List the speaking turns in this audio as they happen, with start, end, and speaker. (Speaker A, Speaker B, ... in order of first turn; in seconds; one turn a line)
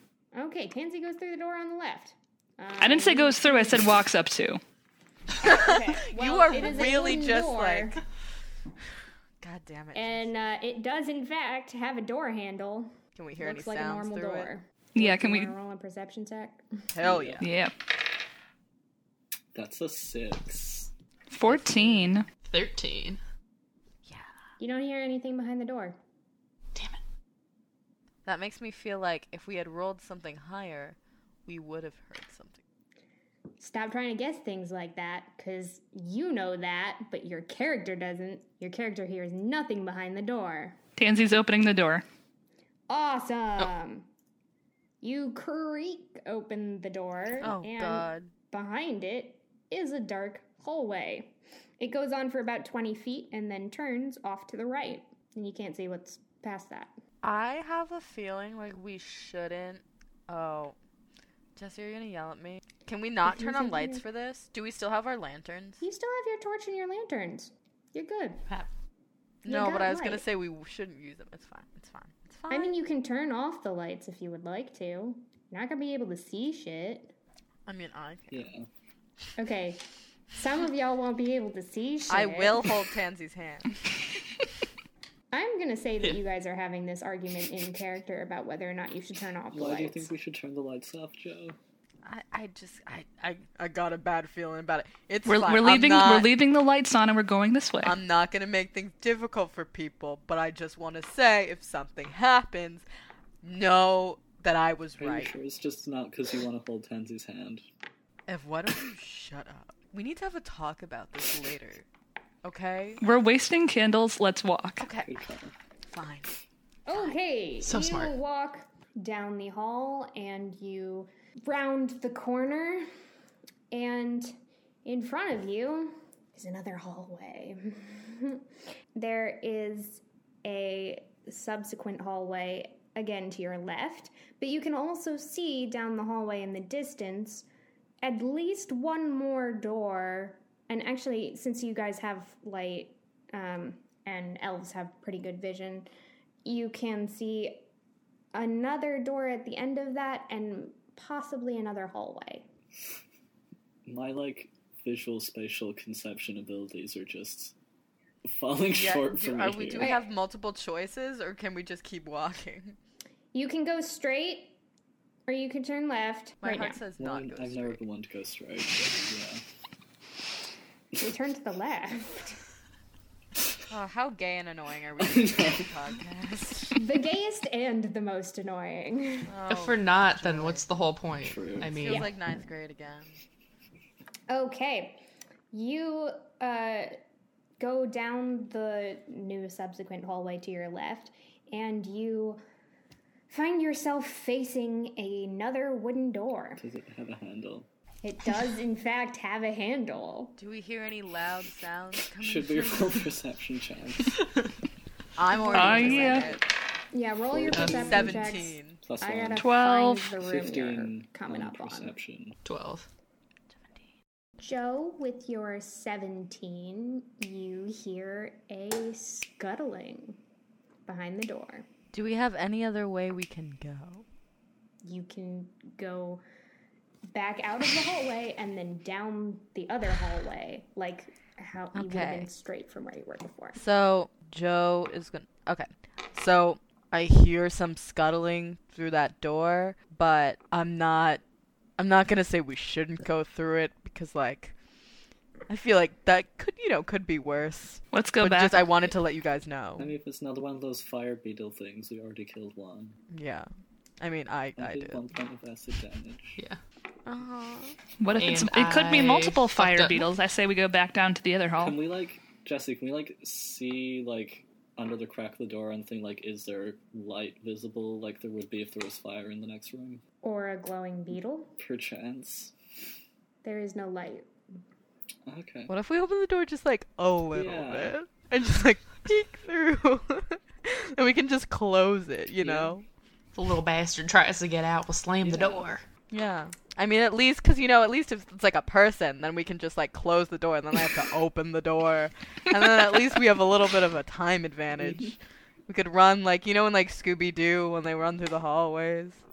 Speaker A: 0.3-3.9
Speaker B: 2.8-4.6
Speaker A: 5.4-8.0
Speaker C: 5.4-8.0
Speaker C: 9.4-10.3
Speaker A: 9.9-16.8
Speaker C: 13.2-14.5
Speaker B: 14.9-15.5
Speaker C: 16.9-17.4
Speaker D: 17.0-17.4
Speaker B: 17.4-17.7
Speaker D: 19.5-20.9
Speaker B: 21.3-22.3
Speaker C: 21.4-22.1
Speaker E: 22.4-23.2
Speaker A: 24.6-26.0
Speaker E: 26.7-27.0
Speaker C: 28.2-32.6
Speaker A: 33.6-40.8
Speaker B: 41.0-42.0
Speaker A: 42.9-44.1
Speaker A: 45.0-56.9
Speaker C: 47.4-48.3
Speaker C: 57.2-60.8
Speaker C: 61.5-65.8
Speaker A: 63.2-64.0
Speaker A: 65.8-68.4
Speaker C: 69.4-72.7
Speaker A: 69.5-70.2
Speaker A: 72.5-77.1
Speaker C: 77.7-78.4
Speaker D: 78.3-78.7
Speaker A: 79.4-79.8
Speaker A: 80.3-82.7
Speaker C: 82.1-83.9
Speaker A: 85.3-90.1
Speaker D: 89.5-91.6
Speaker C: 92.0-96.3
Speaker B: 95.2-98.0
Speaker C: 97.8-102.8
Speaker C: 103.4-105.3
Speaker D: 105.0-107.6
Speaker C: 108.3-111.8
Speaker C: 112.4-113.0
Speaker B: 113.0-114.8
Speaker C: 114.8-115.1
Speaker D: 115.0-115.5
Speaker C: 115.9-116.3
Speaker A: 116.9-122.8
Speaker E: 117.6-118.1
Speaker A: 123.7-128.4
Speaker A: 129.0-137.5
Speaker A: 138.0-145.9
Speaker A: 146.4-147.6
Speaker A: 148.3-152.5
Speaker D: 153.8-157.5
Speaker D: 158.3-159.9
Speaker C: 158.7-162.8
Speaker A: 159.8-160.1
Speaker A: 163.3-164.6
Speaker A: 165.3-166.8
Speaker C: 166.4-167.8
Speaker D: 167.0-169.4
Speaker A: 171.0-172.3
Speaker C: 173.7-176.8
Speaker D: 175.0-175.6
Speaker A: 176.8-179.3
Speaker C: 179.3-180.7
Speaker E: 179.5-182.1
Speaker D: 181.2-181.8
Speaker C: 181.8-183.2
Speaker A: 181.9-182.1
Speaker A: 184.3-186.9
Speaker A: 187.6-192.4
Speaker A: 193.3-196.6
Speaker D: 196.6-197.7
Speaker A: 198.0-200.3
Speaker C: 200.4-203.1
Speaker D: 202.2-204.2
Speaker C: 205.2-206.4
Speaker A: 205.3-206.4
Speaker B: 205.5-206.3
Speaker A: 206.9-211.9
Speaker D: 207.3-208.3
Speaker E: 207.5-207.9
Speaker C: 207.7-208.8
Speaker D: 208.8-209.4
Speaker B: 209.4-210.1
Speaker D: 210.2-212.4
Speaker E: 212.4-212.9
Speaker A: 214.4-220.2
Speaker A: 220.9-221.7
Speaker C: 221.9-224.0
Speaker A: 224.8-226.2
Speaker A: 227.1-233.6
Speaker C: 231.7-232.3
Speaker C: 233.6-241.2
Speaker C: 241.8-244.6
Speaker C: 245.5-249.9
Speaker B: 247.9-248.7
Speaker D: 249.8-253.0
Speaker C: 253.1-253.5
Speaker C: 254.0-255.0
Speaker D: 254.6-256.4
Speaker C: 257.1-257.8
Speaker B: 258.0-261.8
Speaker E: 258.1-260.1
Speaker D: 261.6-270.0
Speaker A: 270.2-271.5
Speaker D: 271.6-272.5
Speaker A: 273.4-274.3
Speaker D: 275.2-275.7
Speaker C: 275.7-282.9
Speaker D: 277.3-277.9
Speaker D: 282.4-282.7
Speaker E: 283.3-285.8
Speaker D: 285.2-285.7
Speaker C: 286.1-299.2
Speaker D: 294.8-295.1